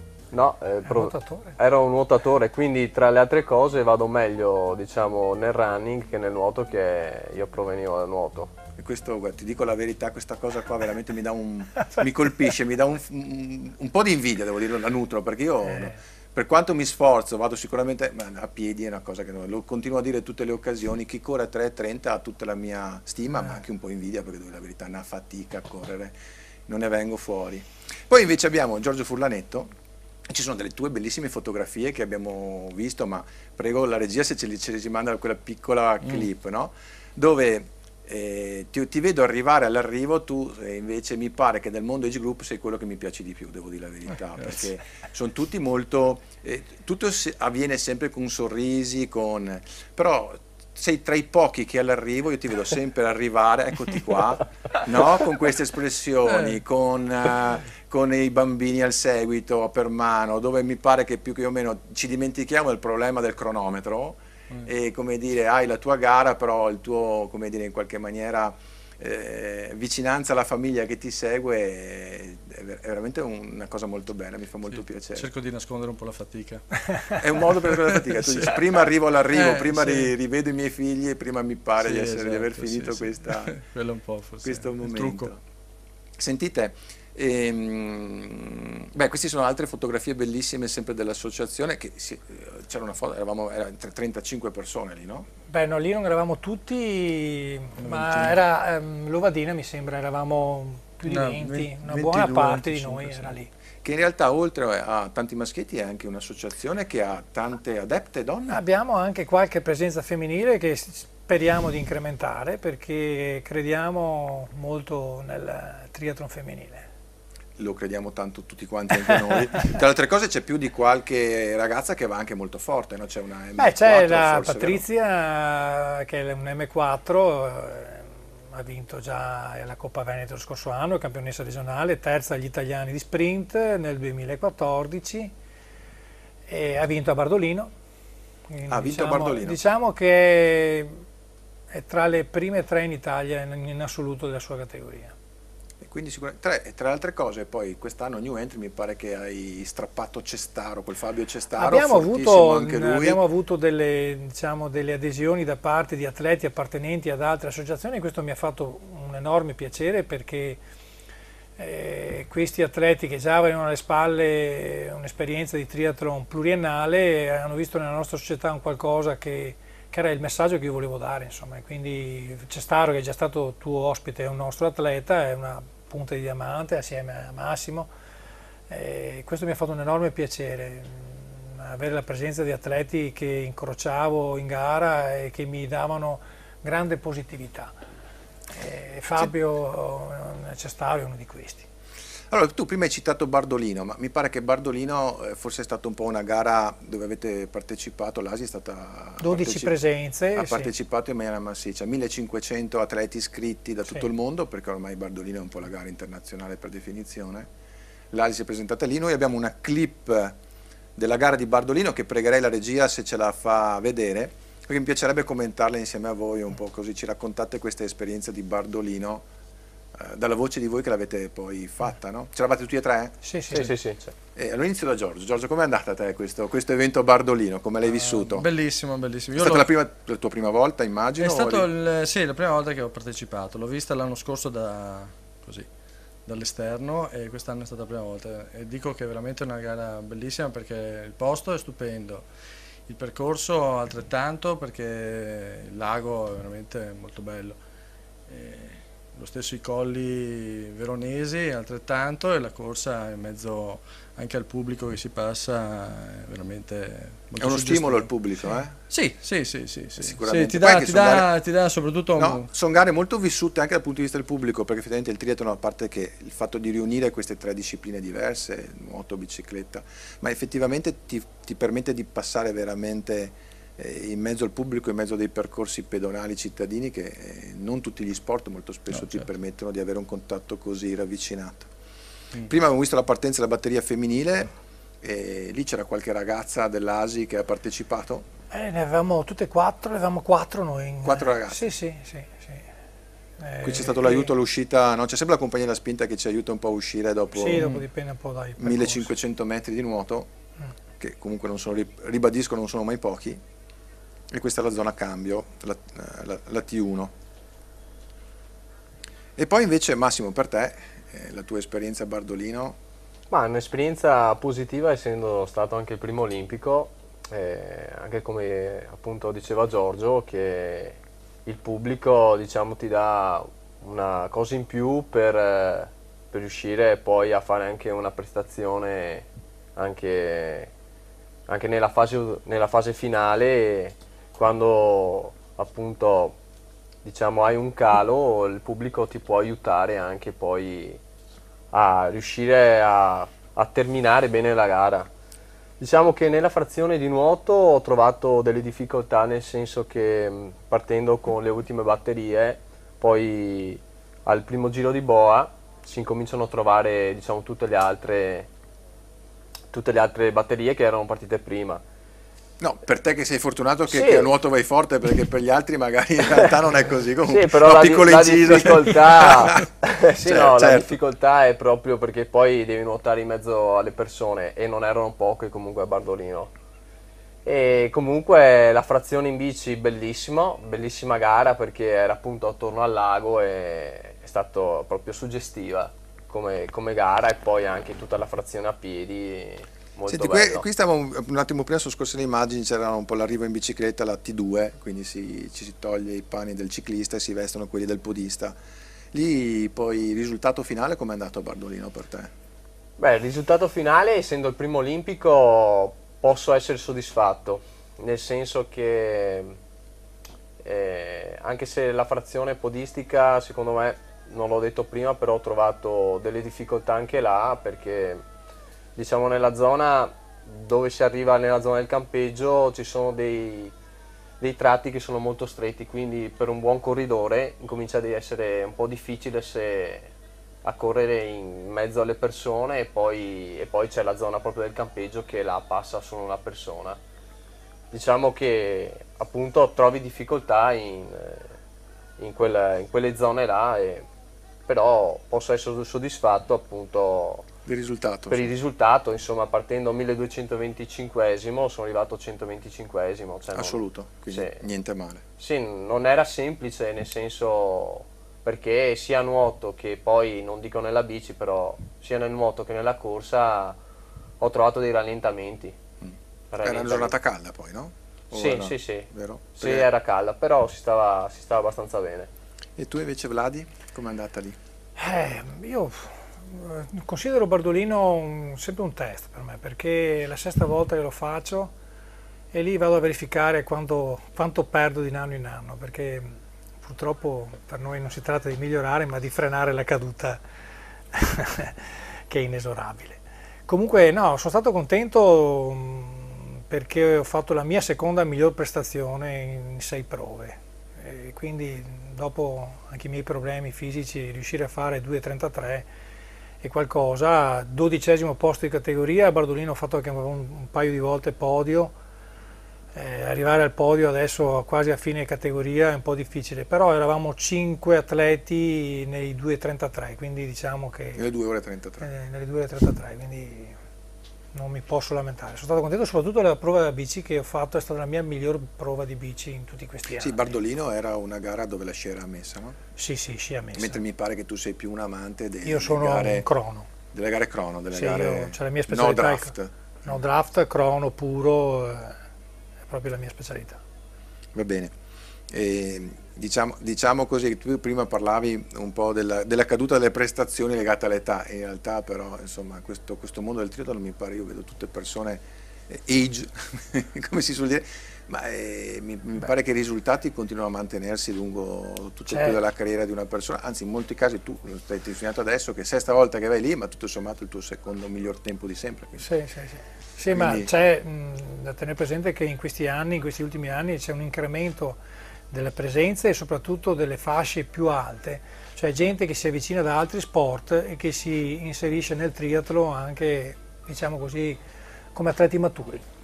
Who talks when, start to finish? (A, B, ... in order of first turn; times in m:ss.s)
0:00.3-0:08.6 A
0:00.9-0:01.6 B
0:08.8-0:26.1 C
0:26.7-0:29.7 C
0:30.3-1:15.3 C
0:44.4-0:44.7 D
0:56.3-0:56.6 D
1:15.2-1:20.1 D
1:17.2-1:23.6 C
1:21.8-1:25.3 D
1:24.4-1:25.4 C
1:26.2-1:35.3 C
1:35.5-1:43.5 B
1:37.8-1:38.4 D
1:41.1-1:43.3 D
1:43.8-1:48.6 C
1:48.5-1:56.9 B
1:57.6-2:04.8 C
2:03.6-2:15.3 B
2:16.5-2:17.7 B
2:18.5-2:21.0 B
2:18.7-2:19.6 C
2:21.7-2:25.2 B
2:25.8-2:33.2 C
2:31.6-2:40.6 B
2:41.6-2:57.9 B
2:58.7-3:07.7 B
3:08.5-3:11.7 B
3:12.3-3:19.8 C
3:19.2-3:20.7 B
3:20.4-3:27.5 C
3:28.1-3:30.4 C
3:31.0-3:39.2 C
3:39.9-3:43.2 C
3:43.2-3:43.8 B
3:43.5-3:44.1 A
3:44.4-3:48.5 C
3:47.9-3:49.7 D
3:49.4-3:51.7 C
3:51.2-3:55.7 D
3:56.3-4:02.2 D
4:02.9-4:07.6 D
4:08.3-4:18.1 D
4:17.4-4:18.8 C
4:18.9-4:22.5 D
4:20.0-4:21.3 C
4:22.2-4:41.7 C
4:38.9-4:39.2 D
4:42.4-4:48.3 C
4:48.5-4:52.6 B
4:51.0-4:51.7 C
4:53.4-4:54.3 B
4:53.6-4:57.8 C
4:57.3-4:59.1 B
4:57.6-4:57.8 D
4:58.6-5:00.3 C
5:01.0-5:03.4 C
5:04.3-5:07.1 C
5:09.4-5:12.8 C
5:13.3-5:30.7 A
5:31.5-5:36.4 A
5:37.0-5:41.0 A
5:41.7-5:45.1 A
5:45.8-5:58.5 A
5:59.7-6:01.8 A
6:02.6-6:11.0 C
6:03.9-6:04.3 A
6:07.3-6:16.5 A
6:17.4-6:30.6 A
6:30.1-6:38.6 C
6:39.1-6:42.3 C
6:43.0-6:49.6 A
6:50.6-6:58.2 A
6:59.0-7:03.7 A
7:04.4-7:10.1 A
7:10.6-7:17.0 A
7:17.9-7:21.5 A
7:22.2-7:24.1 A
7:24.7-7:27.5 A
7:27.7-7:28.5 C
7:28.3-7:33.8 A
7:33.6-7:35.2 C
7:34.3-7:34.6 A
7:35.4-7:43.8 A
7:44.4-7:45.8 A
7:46.0-7:49.9 C
7:46.5-7:47.1 A
7:48.3-7:52.3 A
7:52.8-7:54.6 C
7:55.0-8:01.7 B
8:02.5-8:10.4 B
8:11.1-8:25.9 B
8:26.6-8:32.0 B
8:33.0-8:41.2 B
8:41.2-8:42.1 C
8:42.0-8:43.8 B
8:44.5-8:50.5 B
8:50.2-8:52.8 C
8:53.0-8:54.0 B
8:53.7-8:56.5 C
8:55.6-8:56.9 B
8:57.1-9:00.2 C
8:57.9-9:02.2 B
9:02.9-9:03.8 B
9:04.5-9:04.9 C
9:05.5-9:29.2 C
9:22.3-9:22.6 B
9:29.2-9:35.0 B
9:30.3-9:30.7 C
9:35.5-9:44.6 B
9:45.2-9:46.0 B